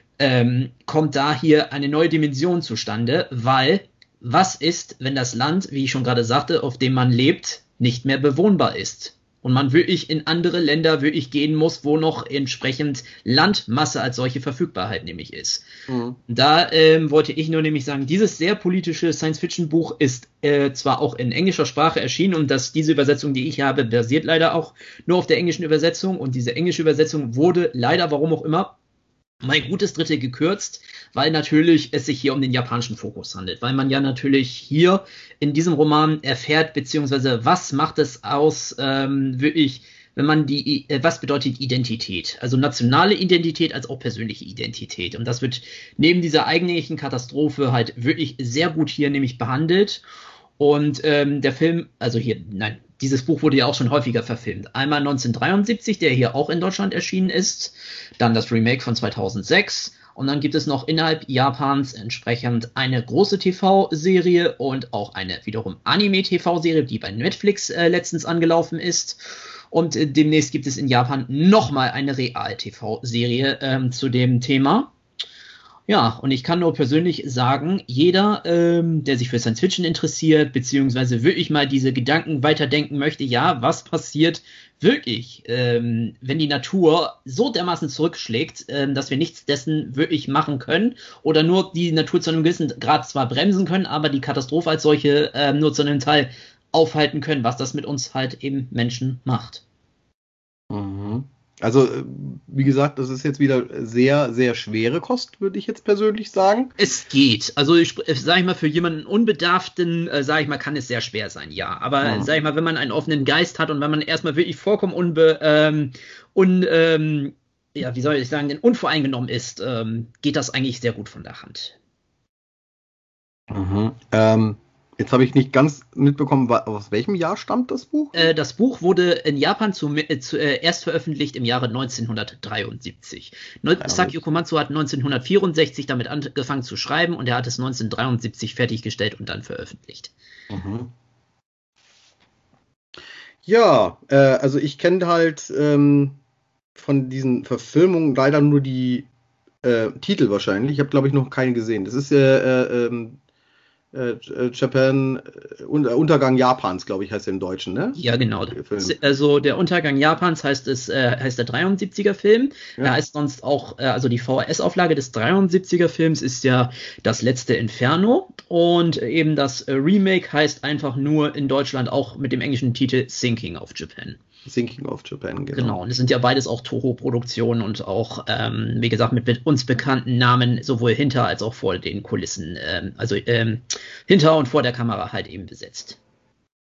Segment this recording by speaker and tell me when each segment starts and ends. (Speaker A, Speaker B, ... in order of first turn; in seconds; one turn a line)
Speaker A: 0.2-15.7
Speaker B: 15.9-16.2
Speaker A: 16.3-28.8
Speaker A: 29.4-50.0
Speaker A: 50.6-74.9
Speaker A: 75.9-99.6
Speaker B: 100.7-106.7
Speaker A: 106.8-121.8
Speaker B: 112.0-112.3
Speaker B: 123.5-128.3
Speaker A: 128.1-140.1
Speaker B: 133.8-134.2
Speaker B: 140.5-140.9
Speaker B: 143.4-146.2
Speaker B: 146.8-149.1
Speaker B: 149.6-153.2
Speaker B: 153.9-158.0
Speaker A: 157.9-174.2
Speaker B: 158.5-158.9
Speaker B: 174.4-175.8
Speaker A: 175.5-186.0